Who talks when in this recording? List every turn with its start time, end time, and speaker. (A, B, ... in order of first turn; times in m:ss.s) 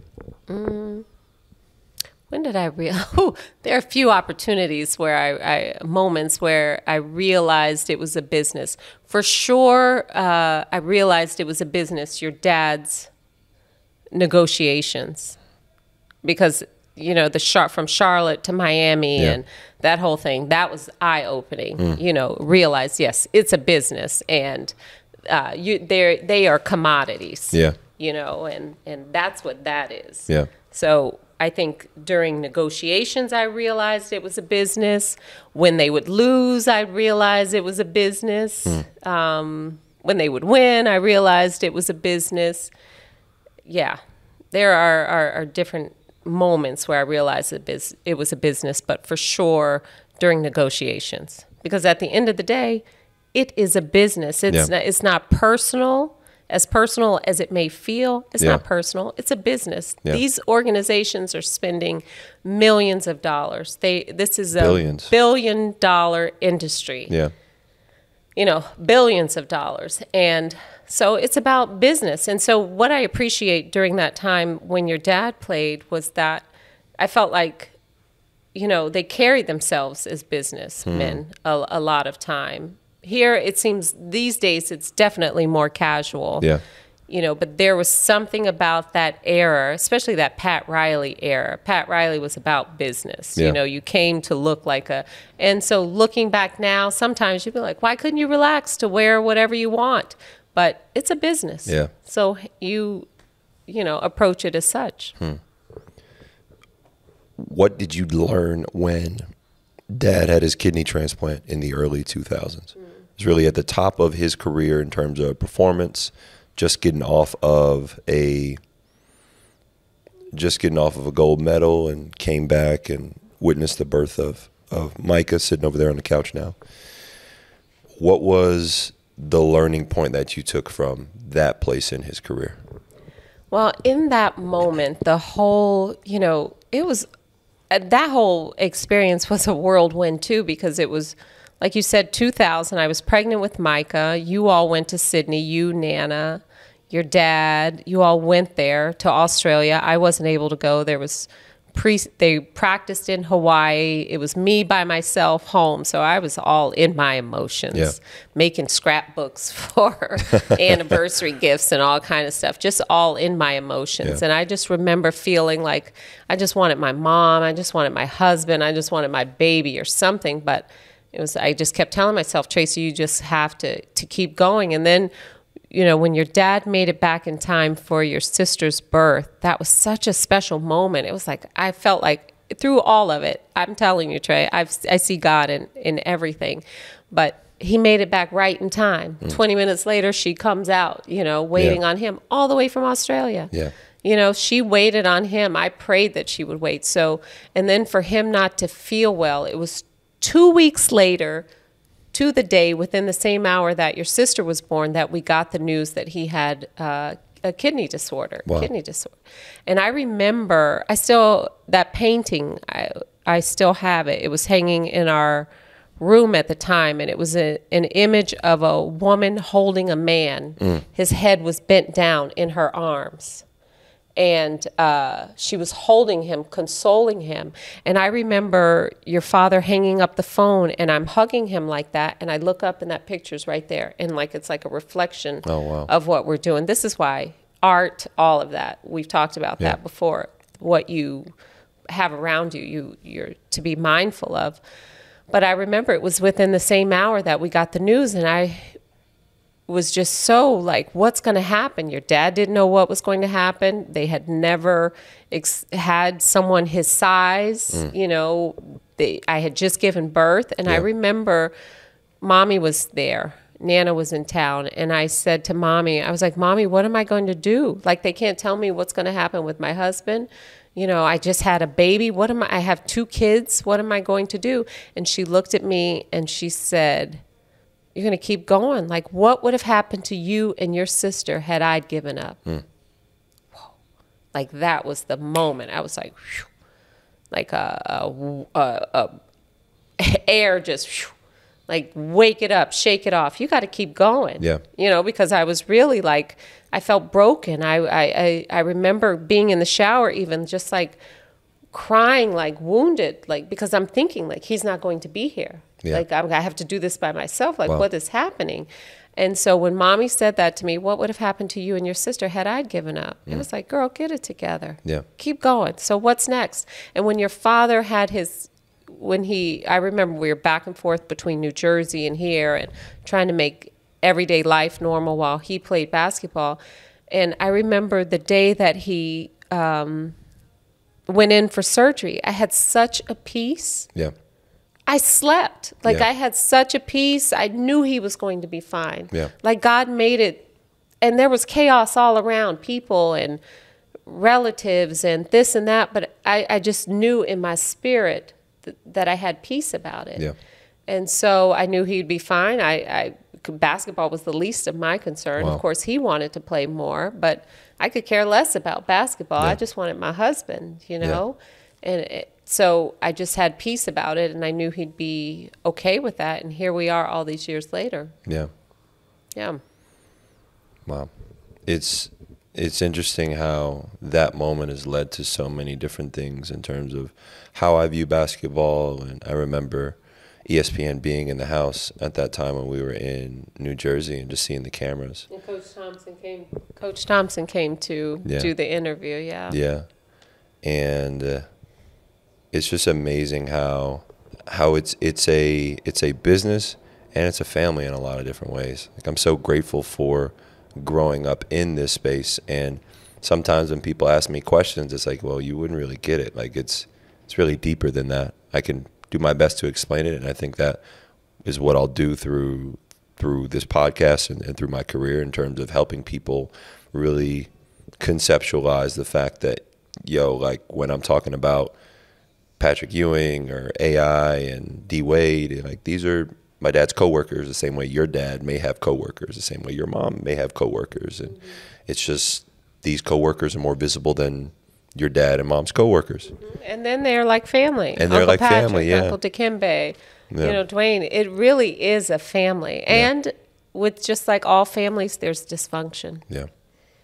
0:00.5-0:01.0 A
0:02.3-0:13.1 A
0:14.1-0:15.4 A
0:16.2-0:24.7 A
0:25.3-0:42.7 A
0:43.6-0:44.0 A
0:44.5-0:52.8 A
0:53.3-1:07.2 A
1:04.6-1:05.1 B
1:08.4-1:16.5 A
1:17.0-1:17.8 A
1:18.5-1:26.5 A
1:20.9-1:21.2 B
1:27.1-1:43.1 A
1:41.6-1:41.9 B
1:43.7-1:45.2 A
1:47.4-1:49.3 B
1:49.9-1:58.6 B
2:00.3-2:06.6 B
2:08.0-2:12.6 B
2:13.5-2:17.1 A
2:17.7-2:55.1 A
2:40.4-2:40.7 B
2:55.7-3:13.5 A
3:14.0-3:21.4 A
3:22.1-3:35.5 A
3:36.0-3:43.4 A
3:44.2-4:01.3 A
3:55.4-3:55.9 B
4:01.9-4:04.6 A
4:05.3-4:08.8 A
4:09.7-4:21.5 A
4:22.2-4:37.2 A
4:37.9-4:42.4 A
4:44.3-4:46.5 A
4:47.3-4:49.2 A
4:50.0-4:51.1 A
4:51.7-5:01.0 A
5:01.7-5:26.6 A
5:27.1-5:30.2 A
5:31.1-5:33.9 A
5:34.9-5:40.5 A
5:41.0-5:43.4 A
5:44.0-5:50.2 A
5:50.9-6:08.2 A
6:08.2-6:08.5 B
6:09.3-6:09.6 A
6:10.9-6:11.1 B
6:11.6-6:25.3 B
6:25.3-6:29.6 A
6:28.2-6:28.5 B
6:29.5-6:29.9 B
6:30.6-6:31.4 B
6:32.5-6:50.8 B
6:51.4-7:01.7 B
7:02.6-7:16.3 B
7:16.4-7:26.2 A
7:18.0-7:19.2 B
7:20.3-7:20.6 B